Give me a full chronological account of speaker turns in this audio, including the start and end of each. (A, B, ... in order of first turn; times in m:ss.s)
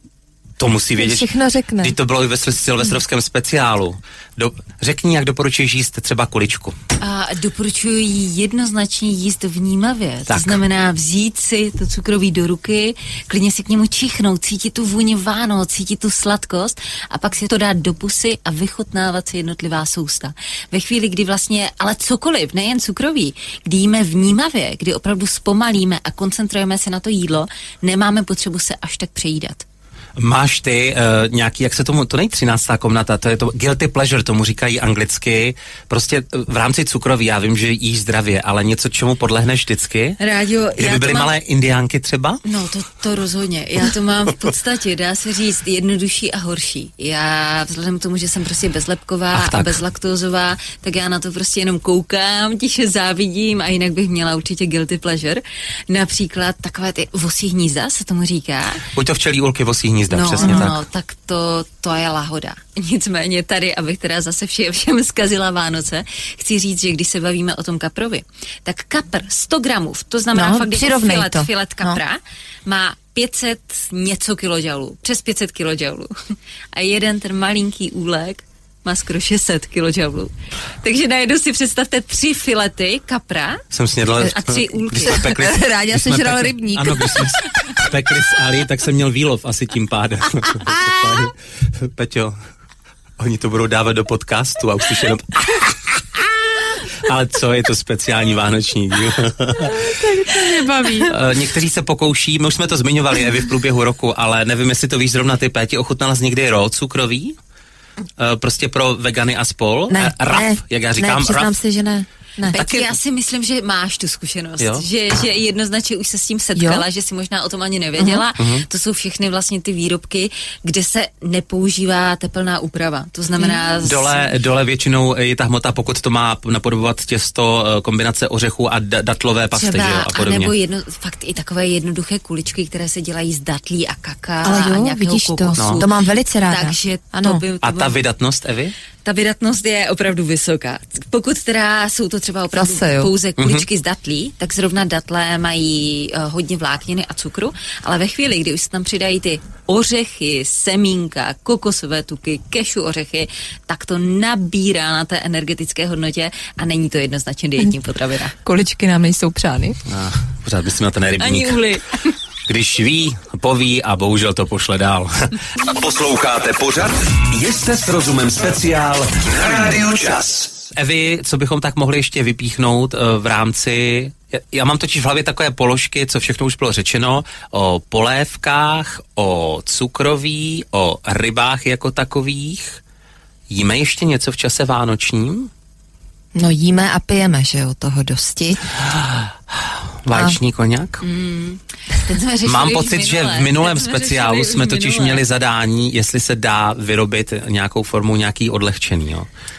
0:00.6-0:01.3 A
0:01.0-0:02.0 B
0:01.8-0:06.8 A
0:07.0-0:29.6 C
0:10.3-0:10.6 A
0:30.2-0:40.2 A
0:40.2-0:41.3 C
0:40.8-0:42.4 A
0:42.4-0:58.8 C
0:49.3-0:49.8 A
0:58.9-1:00.8 A
1:00.1-1:16.1 C
1:00.4-1:00.7 B
1:10.3-1:12.0 B
1:16.7-1:20.3 C
1:20.8-1:23.6 C
1:23.7-1:32.4 A
1:24.2-1:25.3 C
1:25.0-1:27.8 B
1:30.4-1:31.3 B
1:33.2-1:40.0 A
1:39.7-1:41.1 B
1:41.0-1:47.4 A
1:48.2-1:51.6 A
1:49.9-1:52.8 B
1:52.5-2:04.3 C
1:52.5-1:52.9 A
1:54.6-1:54.8 A
1:56.6-1:56.8 B
1:58.0-1:58.2 B
1:58.4-1:58.6 A
2:03.8-2:10.5 A
2:09.6-2:15.9 C
2:14.4-2:17.4 B
2:15.6-2:15.8 A
2:16.5-2:18.0 C
2:17.6-2:18.8 A
2:19.0-2:38.4 C
2:22.5-2:23.1 B
2:23.4-2:23.6 A
2:38.4-2:39.8 B
2:39.9-2:41.6 A
2:41.2-2:42.1 C
2:42.5-2:45.4 A
2:45.6-2:50.6 D
2:50.8-3:02.8 A
3:03.5-3:05.5 A
3:06.4-3:08.7 B
3:08.8-3:11.0 A
3:10.1-3:10.4 B
3:11.0-3:15.2 C
3:12.4-3:19.3 A